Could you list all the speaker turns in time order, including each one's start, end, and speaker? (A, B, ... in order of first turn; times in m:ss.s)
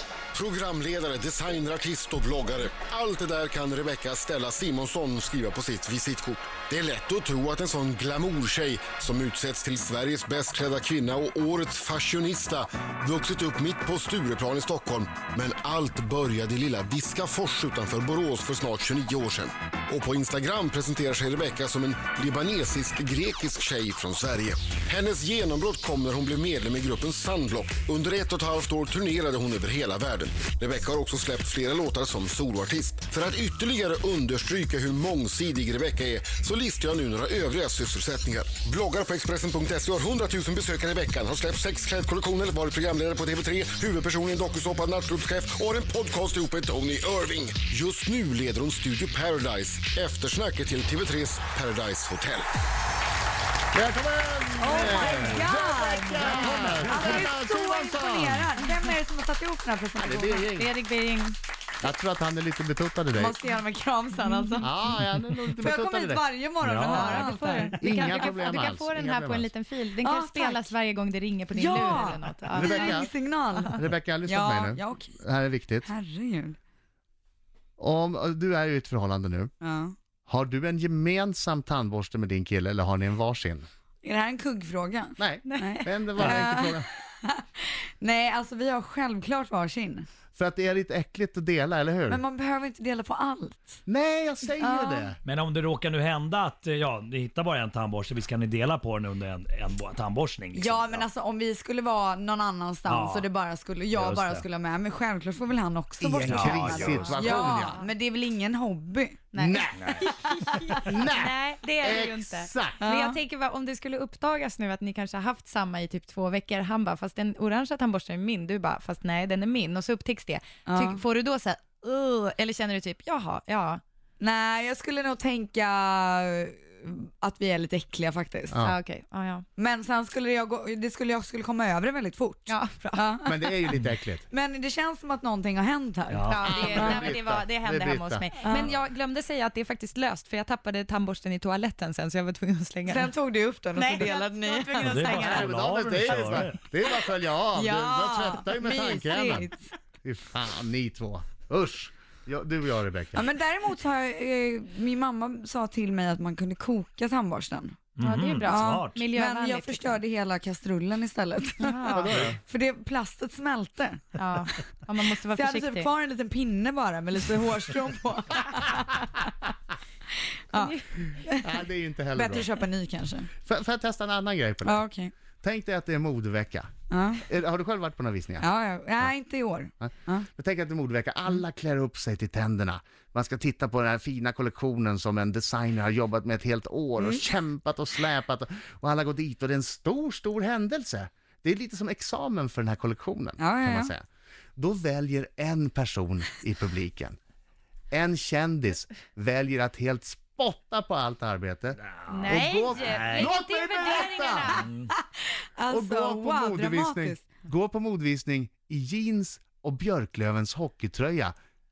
0:00.3-0:52.5 A
0:53.7-0:58.5 B
0:54.6-1:00.5 C
0:56.2-0:57.3 D
1:00.0-1:00.7 B
1:00.5-1:01.4 E
1:01.8-1:03.4 B
1:03.1-1:04.7 C
1:04.2-1:04.7 E
1:04.6-1:06.2 B
1:04.9-1:05.3 D
1:05.6-1:07.8 C
1:06.6-1:07.8 D
1:06.8-1:13.8 E
1:07.8-1:09.5 B
1:10.0-1:10.7 C
1:11.6-1:15.2 C
1:12.5-1:13.1 B
1:13.7-1:15.9 B
1:15.8-1:16.6 C
1:17.8-1:19.5 B
1:19.6-1:19.9 C
1:20.2-1:23.6 B
1:24.0-1:30.1 C
1:25.2-1:26.9 B
1:25.4-1:26.2 E
1:30.3-1:32.2 B
1:32.1-1:33.8 C
1:33.8-1:35.2 B
1:34.6-1:35.1 C
1:35.2-1:41.0 D
1:40.5-1:49.3 C
1:42.8-1:43.3 D
1:43.9-1:44.4 D
1:46.0-1:47.8 B
1:46.3-1:47.4 D
1:47.1-1:47.9 E
1:49.3-2:03.8 E
1:49.4-1:49.8 B
1:49.8-1:50.0 D
1:50.8-1:52.8 B
1:52.8-1:53.2 C
2:00.6-2:01.0 C
2:04.2-2:08.6 C
2:08.5-2:08.8 B
2:08.6-2:09.4 E
2:09.6-2:13.6 C
2:12.5-2:13.1 E
2:13.2-2:14.2 B
2:14.2-2:17.1 C
2:16.1-2:16.9 D
2:16.3-2:23.1 E
2:16.4-2:18.2 B
2:18.4-2:18.7 C
2:22.9-2:25.1 C
2:23.7-2:25.5 E
2:24.7-2:26.6 D
2:25.0-2:29.5 B
2:27.5-2:29.7 C
2:30.0-2:33.2 B
2:33.1-2:37.8 C
2:38.0-2:39.0 D
2:38.0-2:40.0 E
2:38.5-2:44.0 C
2:41.6-2:42.2 E
2:41.9-2:42.4 B
2:44.2-2:45.9 E
2:45.3-2:48.9 C
2:50.5-2:51.6 C
2:50.5-2:51.2 E
2:51.4-2:52.5 B
2:52.1-2:53.3 C
2:53.4-2:54.8 B
2:54.6-2:55.1 C
2:55.4-2:56.7 B
2:56.9-2:57.2 C
2:57.2-2:58.5 B
2:58.4-3:00.3 C
2:59.8-3:14.0 B
3:07.0-3:07.2 C
3:13.4-3:13.9 C
3:14.6-3:17.2 B
3:17.9-3:24.6 B
3:21.8-3:23.3 D
3:22.1-3:24.7 E
3:24.5-3:24.9 D
3:25.6-3:27.2 C
3:25.7-3:31.3 B